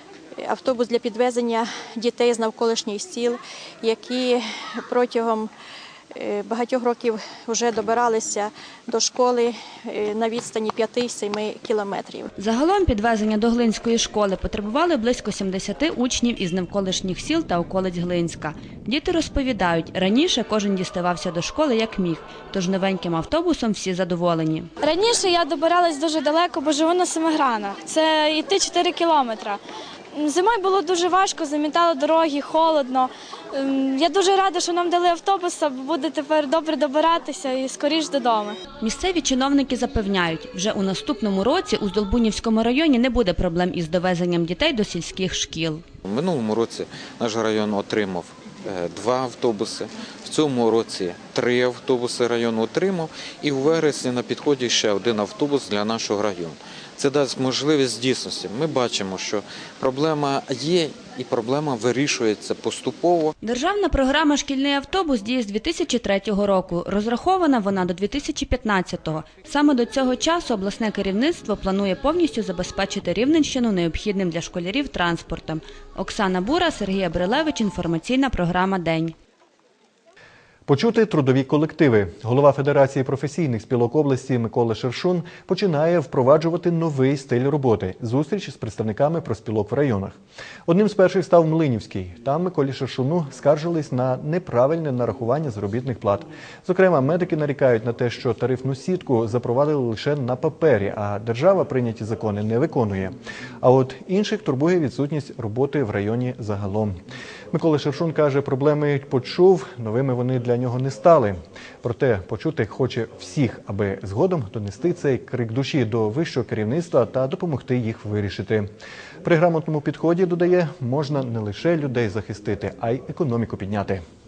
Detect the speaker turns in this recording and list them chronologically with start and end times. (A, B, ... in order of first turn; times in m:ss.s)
0:00.4-0:05.5 A
0:06.1-0:12.3 A
0:12.4-0:24.7 B
0:24.8-0:29.6 C
0:30.1-0:38.6 C
0:38.8-0:45.8 B
0:46.0-1:03.3 D
1:03.4-1:19.1 B
1:20.7-1:47.0 E
1:47.5-1:58.7 E
1:59.2-2:04.0 E